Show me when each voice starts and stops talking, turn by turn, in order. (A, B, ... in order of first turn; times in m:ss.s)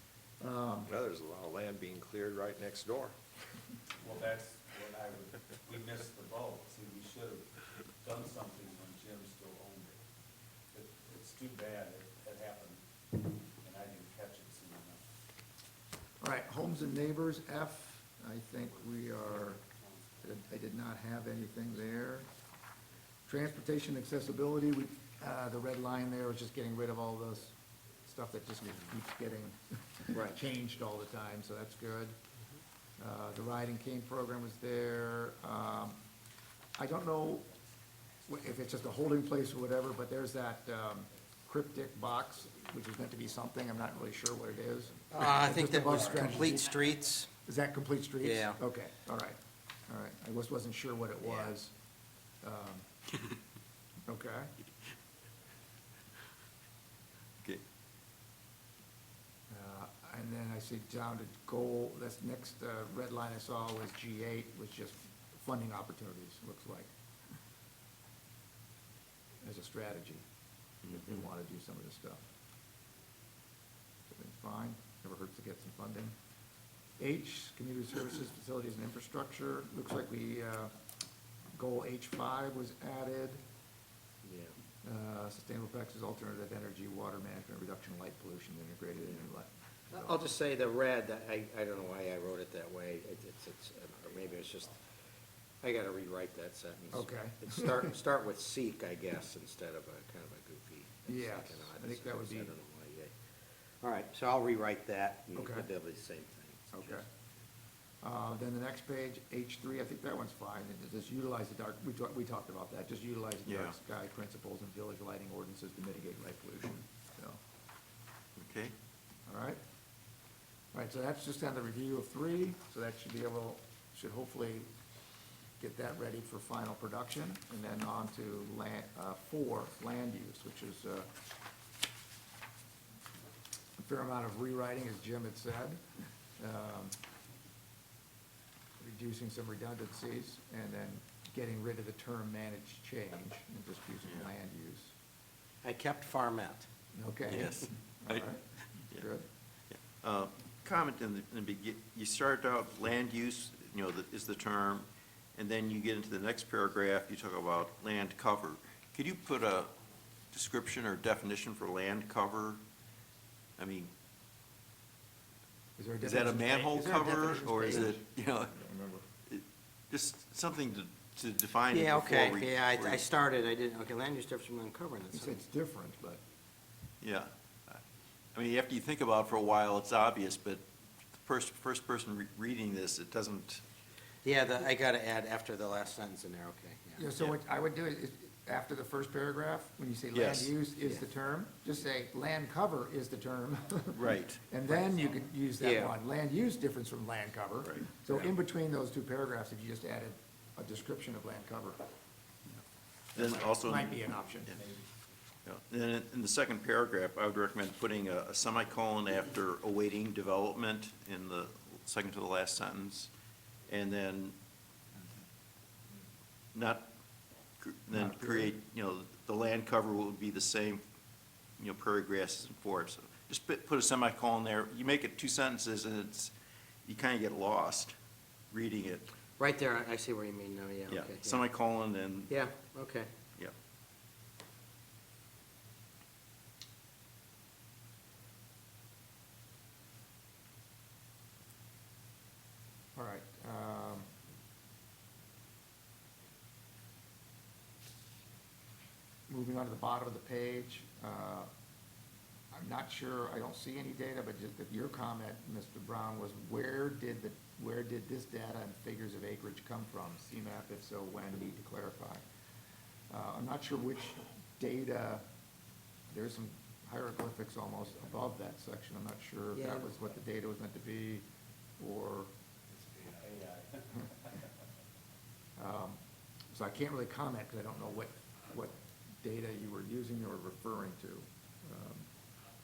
0:00.4-0:00.9 A
0:00.9-0:03.1 B
0:04.1-0:10.0 C
0:10.7-0:12.8 C
0:13.6-0:15.0 C
0:16.2-0:19.6 A
0:20.2-0:22.3 A
0:23.2-0:32.1 A
0:33.0-0:36.0 A
0:36.8-0:37.5 A
0:38.3-0:46.7 A
0:45.1-0:47.3 D
0:47.4-0:51.7 A
0:48.2-0:48.6 D
0:51.2-0:51.5 D
0:52.4-0:52.8 A
0:54.1-0:54.5 A
0:59.5-1:06.9 A
1:09.4-1:10.2 A
1:10.8-1:12.2 A
1:14.1-1:16.1 A
1:17.0-1:20.7 A
1:21.5-1:23.4 A
1:24.2-1:24.5 D
1:24.8-1:30.2 A
1:29.9-1:34.8 D
1:35.6-1:43.1 D
1:36.9-1:37.9 A
1:41.1-1:42.5 A
1:43.8-1:47.0 D
1:45.4-1:45.7 A
1:46.7-1:47.0 A
1:48.0-1:57.4 A
1:53.4-1:53.8 E
1:58.4-1:58.7 E
1:59.3-1:59.6 A
2:00.7-2:04.7 A
2:05.6-2:11.1 A
2:13.8-2:15.8 A
2:16.4-2:17.0 A
2:18.8-2:24.9 A
2:25.6-2:26.7 D
2:26.9-2:29.3 A
2:27.3-2:28.3 E
2:29.7-2:39.7 E
2:40.3-2:42.6 E
2:43.6-2:43.9 E
2:45.8-2:49.0 A
2:46.0-2:48.5 E
2:49.3-2:53.0 E
2:51.7-2:55.4 D
2:55.1-2:56.2 A
2:57.0-2:57.8 E
2:58.3-3:00.6 E
3:01.2-3:03.6 E
3:04.2-3:07.1 D
3:07.0-3:21.8 A
3:10.1-3:10.5 E
3:13.9-3:14.4 E
3:15.6-3:15.9 D
3:23.1-3:24.5 E
3:23.1-3:24.6 A
3:25.4-3:33.1 E
3:33.7-3:34.4 E
3:36.5-3:36.9 E
3:37.6-3:40.8 E
3:37.9-3:38.5 A
3:41.6-3:46.3 E
3:46.8-3:47.9 E
3:48.5-3:49.1 E
3:49.4-3:51.4 D
3:50.9-3:52.4 E
3:52.3-3:53.1 D
4:03.0-4:04.1 A
4:09.3-4:11.5 A
4:12.5-4:22.2 A
4:23.1-4:25.2 A
4:26.1-4:31.2 A
4:29.6-4:29.9 D
4:31.8-4:32.3 A
4:32.9-4:33.8 C
4:35.6-4:36.0 A
4:36.5-4:42.1 A